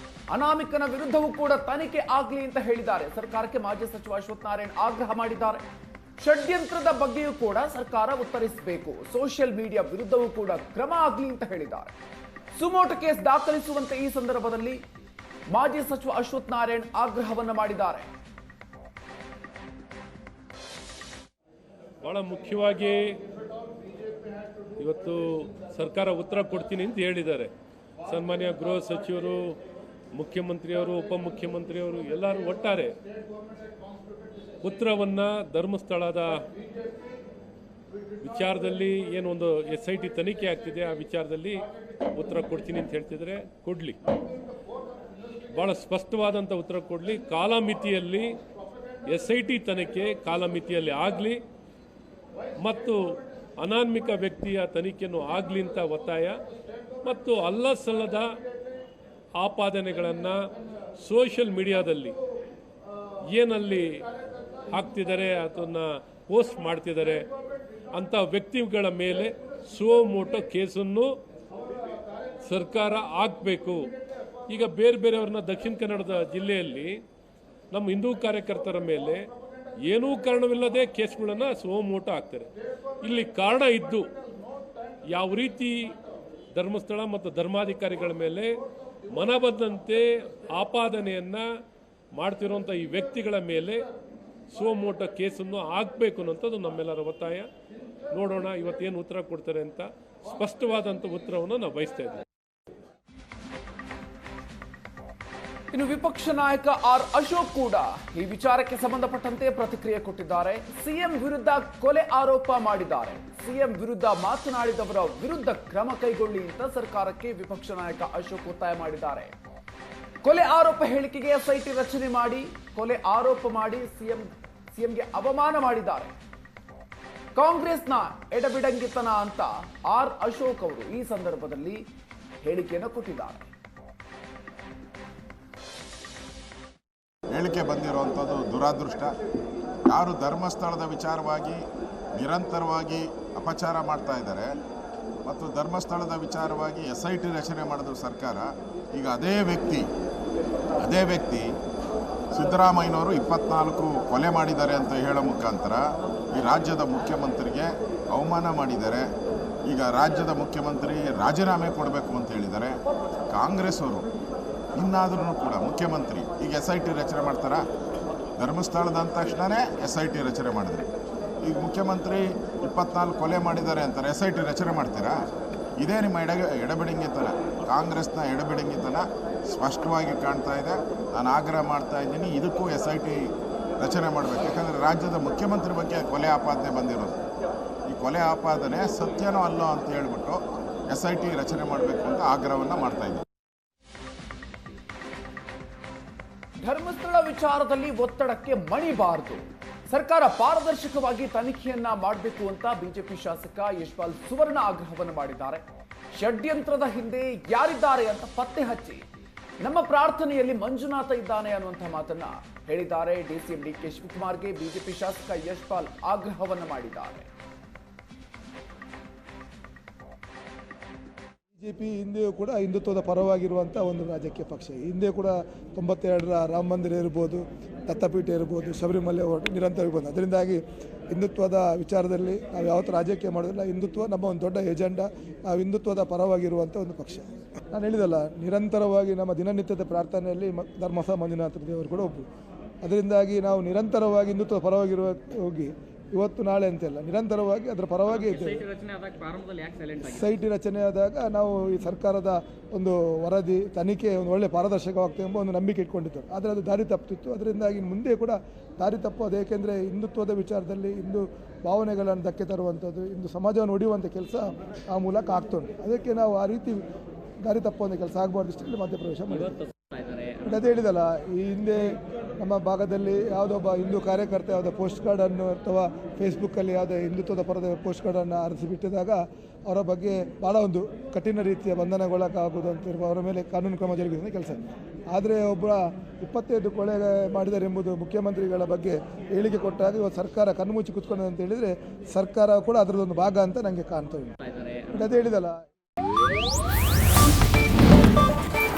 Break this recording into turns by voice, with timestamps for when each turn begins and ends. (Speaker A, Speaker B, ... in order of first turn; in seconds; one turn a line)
Speaker A: 0.3-5.6
Speaker A: 6.2-11.9
Speaker A: 12.5-14.8
Speaker A: 15.5-18.1
Speaker B: 22.0-23.2
Speaker B: 24.8-27.5
Speaker B: 28.0-29.6
Speaker B: 30.1-33.0
Speaker B: 34.6-36.4
Speaker B: 38.2-44.0
Speaker B: 45.5-48.3
Speaker B: 49.0-51.4
Speaker B: 52.6-56.4
Speaker B: 57.0-58.3
Speaker B: 59.4-60.4
Speaker B: 61.0-62.2
Speaker B: 63.3-64.1
Speaker B: 64.7-67.3
Speaker B: 67.9-71.1
Speaker B: 72.4-73.9
Speaker B: 74.5-77.0
Speaker B: 77.7-79.3
Speaker B: 79.8-82.5
Speaker B: 83.0-84.1
Speaker B: 85.1-86.0
Speaker B: 86.5-88.6
Speaker B: 89.1-91.4
Speaker B: 92.2-93.9
Speaker B: 94.5-97.5
Speaker B: 98.1-102.2
Speaker A: 105.7-119.3
Speaker A: 120.2-126.1
Speaker A: 127.3-131.8
Speaker A: 132.4-133.5
Speaker C: 137.3-139.1
Speaker C: 139.8-141.6
Speaker C: 142.1-144.5
Speaker C: 145.2-149.8
Speaker C: 150.8-151.5
Speaker C: 152.3-155.8
Speaker C: 156.3-159.1
Speaker C: 159.7-162.8
Speaker C: 163.3-164.1
Speaker C: 164.7-167.6
Speaker C: 168.4-170.8
Speaker C: 171.4-175.2
Speaker C: 175.8-187.2
Speaker C: 187.9-193.2
Speaker A: 196.6-205.6
Speaker A: 206.2-209.1
Speaker A: 209.6-217.3
Speaker D: 221.5-230.6
Speaker D: 231.1-242.3
Speaker D: 242.8-248.7
Speaker E: 248.2-250.3
Speaker D: 250.0-266.8
Speaker D: 267.4-269.6
Speaker E: 269.5-270.4
Speaker D: 270.4-284.6
Speaker D: 285.1-294.3
Speaker E: 294.5-294.8
Speaker D: 294.9-295.6